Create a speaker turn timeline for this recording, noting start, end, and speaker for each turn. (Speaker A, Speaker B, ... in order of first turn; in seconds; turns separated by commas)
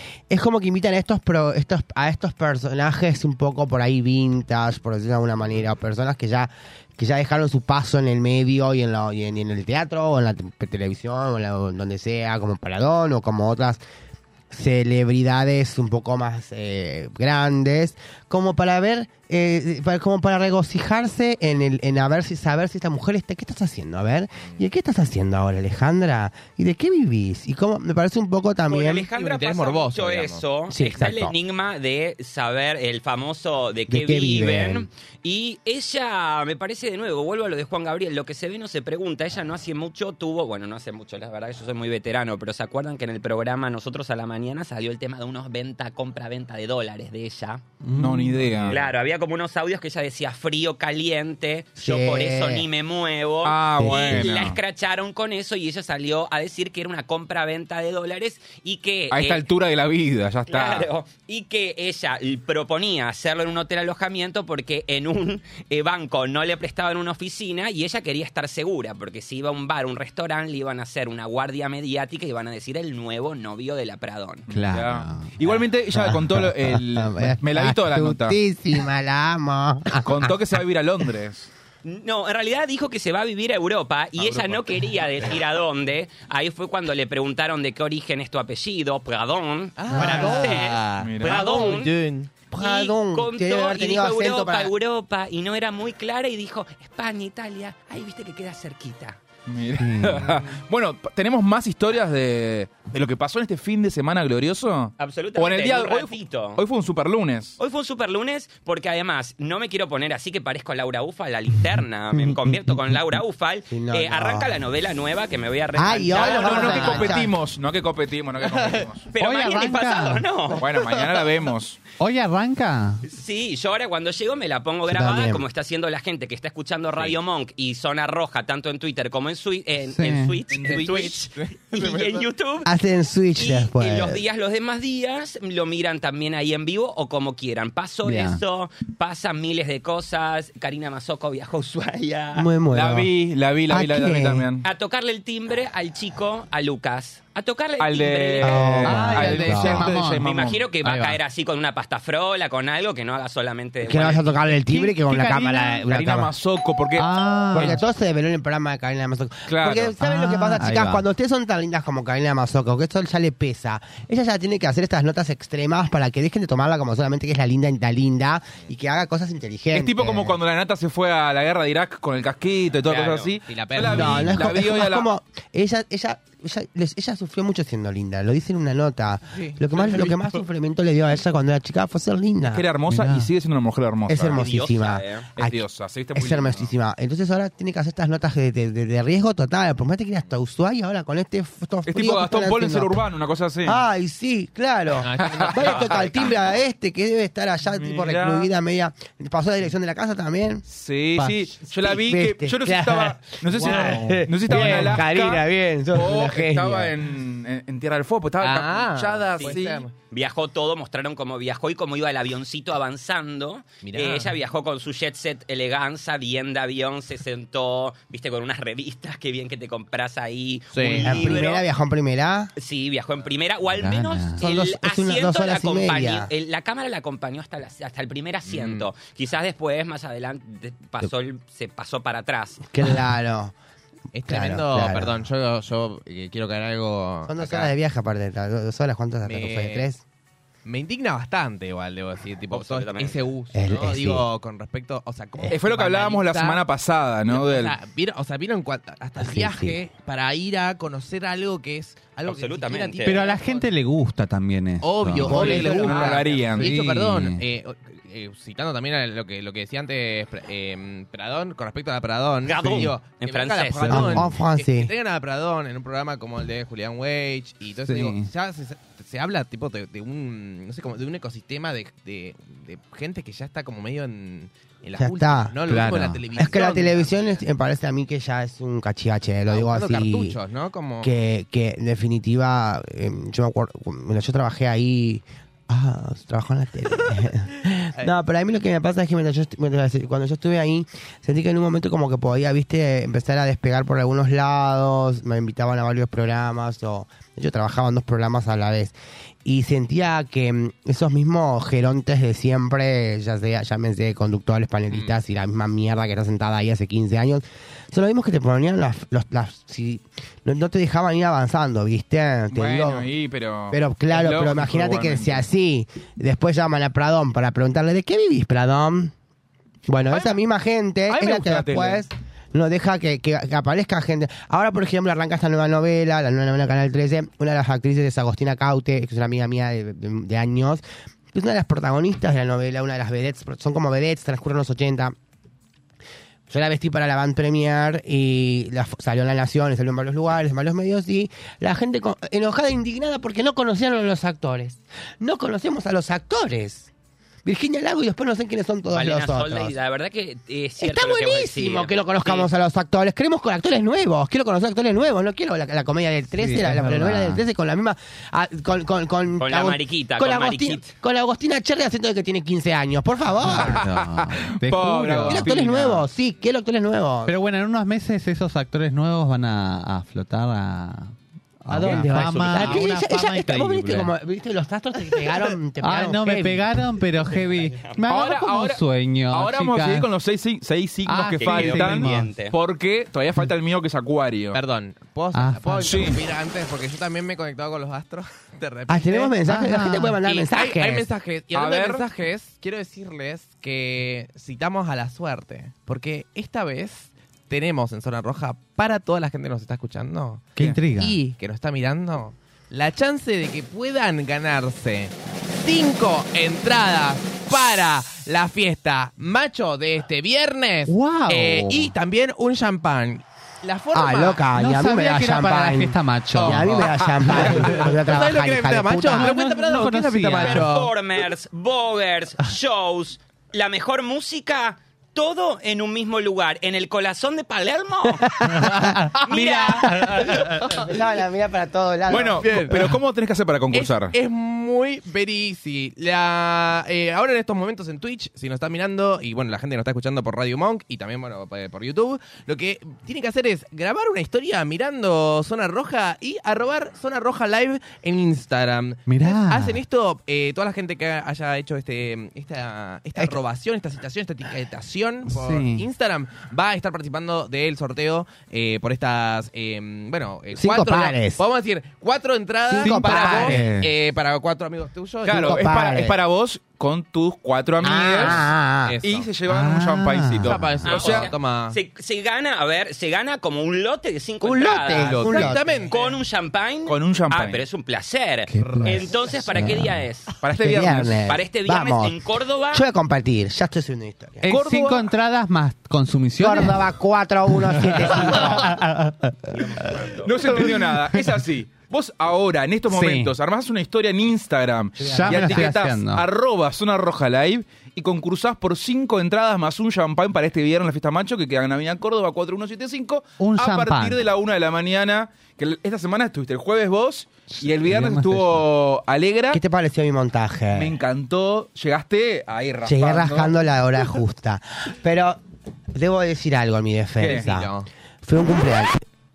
Speaker A: 0.3-13.8, Speaker A: 14.5-29.1, Speaker B: 28.7-47.6, Speaker C: 29.1-30.4, Speaker A: 30.7-31.3, Speaker A: 33.9-34.9, Speaker D: 47.8-48.8, Speaker E: 48.0-48.8, Speaker B: 48.7-59.4, Speaker A: 51.8-52.7, Speaker E: 53.4-54.6, Speaker A: 53.8-54.3, Speaker E: 59.1-60.9, Speaker B: 60.5-74.5, Speaker D: 74.5-75.3, Speaker E: 74.5-78.4, Speaker A: 76.0-80.3, Speaker E: 80.0-81.5, Speaker B: 81.8-91.9, Speaker E: 84.2-84.9, Speaker C: 89.8-92.3, Speaker A: 89.9-90.6, Speaker E: 91.0-91.4, Speaker A: 92.5-94.7, Speaker B: 92.5-99.2, Speaker E: 99.5-107.6, Speaker D: 99.8-100.3, Speaker B: 105.0-106.6, Speaker B: 107.6-117.2, Speaker D: 112.1-112.9, Speaker A: 113.7-114.6, Speaker A: 115.7-117.3, Speaker E: 116.1-119.1, Speaker C: 118.4-118.8, Speaker B: 119.1-120.7, Speaker D: 119.2-120.2, Speaker E: 120.5-121.8, Speaker D: 122.0-123.0, Speaker B: 123.0-132.7, Speaker A: 124.9-125.4, Speaker D: 129.9-130.4, Speaker E: 130.5-131.1, Speaker C: 130.5-132.3, Speaker A: 132.6-134.2, Speaker B: 133.3-142.5, Speaker D: 138.0-138.4, Speaker A: 142.3-143.1, Speaker E: 142.7-144.7, Speaker A: 143.7-144.5, Speaker B: 144.6-148.8, Speaker E: 147.8-150.6, Speaker A: 148.4-149.9, Speaker D: 148.8-150.2, Speaker B: 150.1-154.5, Speaker D: 150.8-151.2, Speaker A: 153.8-156.3, Speaker D: 154.7-155.8, Speaker E: 155.8-157.7, Speaker D: 157.0-157.8, Speaker A: 157.5-170.4, Speaker E: 159.5-159.9, Speaker D: 160.0-161.0, Speaker E: 169.7-175.1, Speaker B: 172.8-173.4, Speaker C: 173.4-174.5, Speaker A: 173.8-182.7, Speaker C: 179.3-180.4, Speaker E: 182.5-184.4, Speaker D: 182.9-183.3, Speaker A: 184.1-185.6, Speaker B: 184.3-185.3, Speaker E: 185.4-186.7, Speaker A: 186.1-193.0, Speaker E: 191.8-193.8, Speaker A: 193.6-200.6, Speaker C: 195.0-196.3, Speaker E: 195.2-196.3, Speaker B: 195.8-196.2, Speaker E: 197.8-198.5, Speaker E: 200.7-209.8, Speaker A: 201.2-206.9, Speaker C: 203.6-204.0, Speaker C: 204.5-204.9, Speaker C: 208.4-209.9, Speaker B: 210.1-221.6, Speaker C: 213.8-214.4, Speaker C: 220.7-221.4, Speaker A: 221.0-222.5, Speaker B: 222.6-232.6, Speaker D: 223.7-224.4, Speaker A: 224.4-226.3, Speaker C: 228.4-228.9, Speaker A: 232.7-233.5, Speaker C: 234.1-237.7, Speaker A: 234.2-235.2, Speaker A: 237.3-240.0, Speaker C: 239.2-239.9, Speaker C: 240.7-246.6, Speaker B: 242.5-243.2, Speaker A: 243.5-244.2, Speaker E: 245.5-247.7, Speaker C: 247.3-253.7, Speaker A: 249.2-249.8, Speaker B: 252.2-253.3, Speaker D: 253.0-255.6, Speaker C: 254.8-277.4, Speaker A: 255.2-256.2, Speaker E: 255.3-256.7, Speaker D: 256.6-257.4, Speaker B: 262.4-264.1, Speaker A: 263.9-264.9, Speaker D: 263.9-264.3, Speaker D: 267.9-268.3, Speaker A: 275.0-275.6, Speaker D: 275.7-276.2, Speaker A: 276.3-280.4, Speaker C: 279.5-281.1, Speaker A: 281.0-313.1, Speaker E: 312.5-315.5, Speaker A: 313.7-319.1, Speaker A: 319.9-335.1, Speaker C: 321.1-322.0, Speaker A: 336.5-346.9, Speaker A: 347.4-349.8, Speaker B: 348.9-352.5, Speaker A: 350.8-363.8, Speaker D: 356.4-357.4, Speaker B: 359.4-360.9, Speaker D: 363.4-365.5, Speaker E: 363.5-366.1, Speaker A: 365.2-367.3, Speaker D: 367.2-374.1, Speaker A: 371.7-376.8, Speaker B: 372.1-372.8, Speaker D: 375.8-380.1, Speaker B: 377.8-378.0, Speaker E: 378.1-384.6, Speaker D: 381.1-382.3, Speaker B: 381.4-382.6, Speaker C: 384.5-389.4, Speaker D: 385.3-386.1, Speaker E: 385.8-386.2, Speaker A: 388.9-391.1, Speaker D: 389.5-390.2, Speaker C: 390.2-414.4, Speaker E: 391.5-392.0, Speaker D: 400.6-401.2, Speaker D: 410.9-411.9, Speaker A: 413.9-419.3, Speaker D: 414.6-416.7, Speaker C: 416.4-420.9, Speaker D: 419.1-420.7, Speaker B: 420.4-428.4, Speaker A: 428.4-432.5, Speaker D: 428.6-429.0, Speaker B: 429.2-430.0, Speaker C: 430.3-430.7, Speaker E: 432.1-434.1, Speaker C: 432.4-433.0, Speaker C: 433.7-465.7, Speaker D: 449.1-449.8, Speaker D: 455.3-455.9, Speaker A: 460.5-461.4, Speaker A: 462.7-463.6, Speaker D: 462.8-463.9, Speaker E: 465.2-468.4, Speaker A: 465.3-466.2, Speaker A: 467.8-469.0, Speaker C: 468.8-469.3, Speaker E: 469.0-471.3, Speaker D: 469.5-470.8, Speaker C: 470.4-471.8, Speaker B: 470.8-475.4, Speaker A: 474.4-475.9, Speaker C: 474.9-476.2, Speaker B: 475.9-480.4, Speaker E: 476.9-477.6, Speaker D: 478.5-480.0, Speaker E: 478.6-479.0, Speaker E: 480.4-481.3, Speaker A: 480.5-484.4, Speaker B: 481.3-482.8, Speaker D: 484.4-486.8, Speaker E: 484.4-485.1, Speaker A: 486.4-488.8, Speaker D: 487.9-489.8, Speaker B: 489.7-490.2, Speaker E: 490.1-509.6, Speaker D: 492.9-493.3, Speaker A: 495.0-495.7, Speaker D: 495.0-496.2, Speaker D: 503.4-504.2, Speaker D: 507.5-508.6, Speaker A: 509.5-510.9, Speaker E: 510.7-513.5, Speaker A: 512.8-515.4, Speaker A: 515.9-519.0, Speaker E: 517.2-517.5, Speaker C: 517.2-517.9